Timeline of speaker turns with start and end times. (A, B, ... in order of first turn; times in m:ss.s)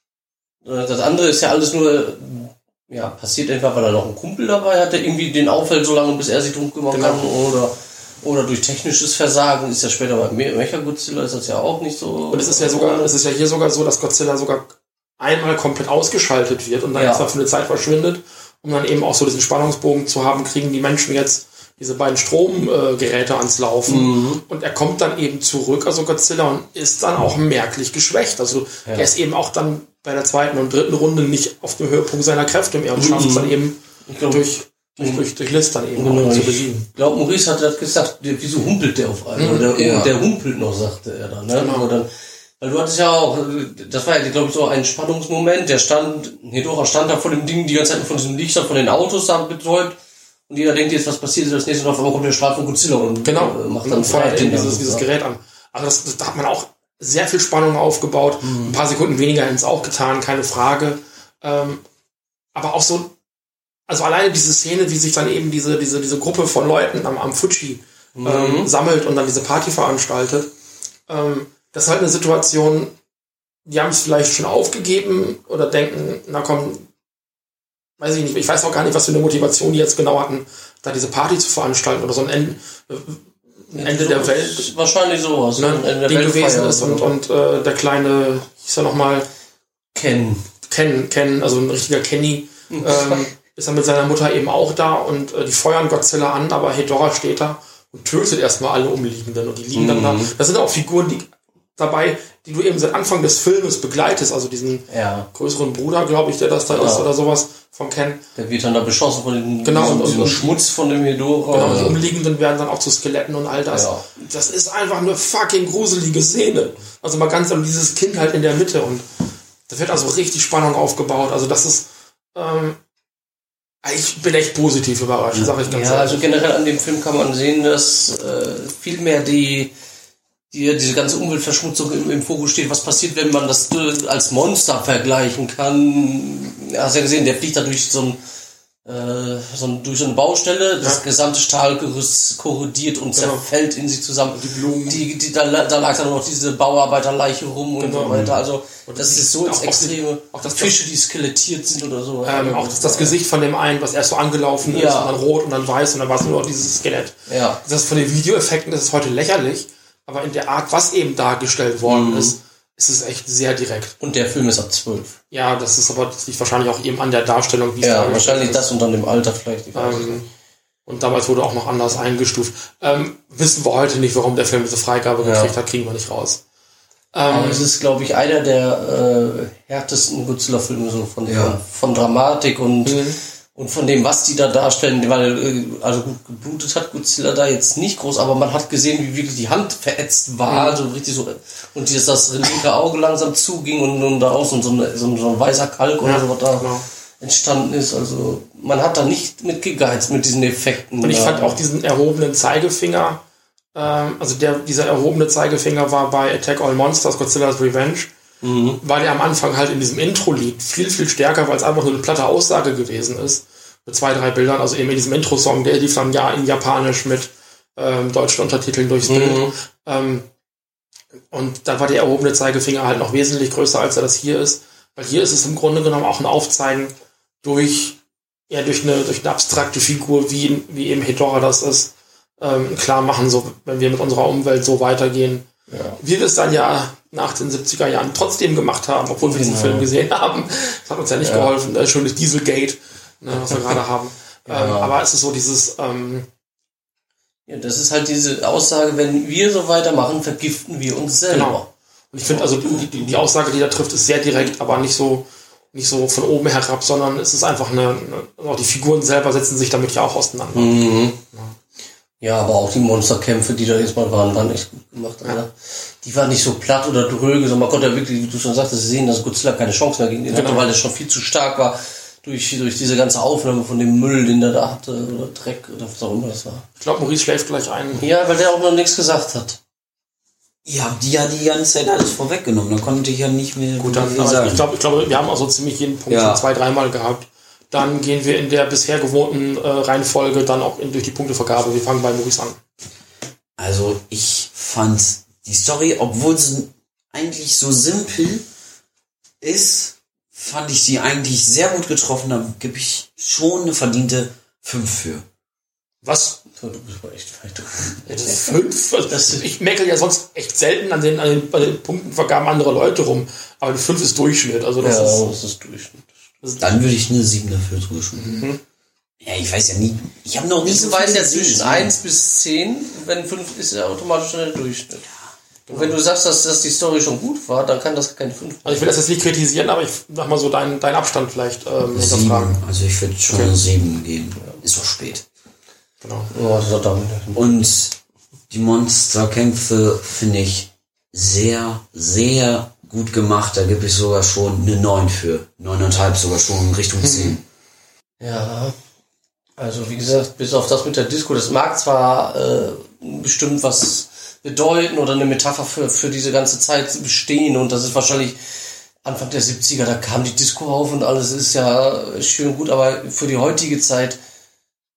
0:00.6-0:13.1 A
0:06.9-0:07.2 B
0:12.3-0:36.9 B
0:17.0-0:17.3 A
0:23.9-0:24.4 A
0:33.0-0:33.5 A
0:34.0-0:34.4 A
0:36.0-0:42.1 A
0:39.4-0:39.7 B
0:39.7-0:40.1 C
0:41.6-0:41.9 B
0:42.6-0:50.0 A
0:50.5-0:55.0 A
0:53.2-1:01.8 B
0:58.4-0:58.8 A
1:02.5-1:03.1 B
1:03.9-1:10.5 B
1:08.1-1:08.7 A
1:11.1-1:12.9 B
1:13.6-1:16.9 B
1:18.0-1:24.7 B
1:23.8-1:27.1 A
1:25.6-1:29.3 B
1:29.9-1:30.5 A
1:30.6-1:48.2 B
1:32.7-1:33.2 A
1:39.7-1:40.3 A
1:44.9-1:45.3 A
1:46.7-1:47.1 A
1:48.4-1:52.0 A
1:49.6-1:50.6 B
1:51.5-1:59.0 B
1:53.7-1:54.0 A
1:59.7-2:02.8 B
2:03.8-2:06.2 B
2:05.6-2:09.7 A
2:10.5-2:18.2 A
2:18.8-2:33.1 A
2:23.2-2:23.4 B
2:24.3-2:25.0 B
2:27.8-2:28.3 B
2:28.8-2:30.8 B
2:32.2-2:44.0 B
2:34.6-2:35.1 A
2:37.3-2:37.6 A
2:41.8-2:42.4 A
2:44.0-2:45.2 A
2:45.3-2:48.6 B
2:47.8-2:50.2 A
2:49.7-2:50.3 B
2:50.9-2:56.4 B
2:55.2-2:55.5 A
2:57.1-2:57.7 B
2:57.3-3:16.7 A
3:01.2-3:01.6 C
3:02.8-3:03.2 B
3:10.5-3:10.8 B
3:16.0-3:16.8 B
3:17.2-3:21.6 A
3:21.0-3:23.2 B
3:23.7-3:28.1 B
3:28.4-3:28.8 A
3:28.8-3:40.2 B
3:39.0-3:39.5 A
3:41.3-3:48.0 B
3:48.5-3:55.5 B
3:55.7-3:56.0 A
3:56.0-4:06.3 B
3:59.2-3:59.9 A
4:01.2-4:01.5 A
4:04.5-4:04.9 A
4:07.5-4:11.6 A
4:11.3-4:21.6 B
4:12.3-4:12.9 A
4:20.5-4:21.2 A
4:22.2-4:36.6 A
4:30.3-4:30.7 B
4:36.8-4:38.0 B
4:38.0-4:39.6 A
4:40.6-4:44.6 C
4:43.8-4:52.6 B
4:46.1-4:46.4 C
4:53.6-4:58.4 C
4:59.4-5:05.2 C
5:06.0-5:06.4 B
5:06.5-5:08.5 A
5:08.0-5:15.2 B
5:09.1-5:09.4 A
5:14.8-5:16.1 A
5:16.4-5:16.7 B
5:16.6-5:18.4 C
5:18.1-5:18.6 B
5:19.2-5:21.9 C
5:20.6-5:25.0 A
5:25.7-5:26.0 B
5:25.7-5:28.9 A
5:28.6-5:32.6 B
5:31.9-5:35.2 C
5:33.3-5:33.6 B
5:36.0-5:36.3 B
5:36.3-5:37.5 A
5:37.3-5:38.0 C
5:38.5-5:47.4 C
5:47.0-5:47.4 B
5:48.2-5:48.8 A
5:49.6-6:04.2 A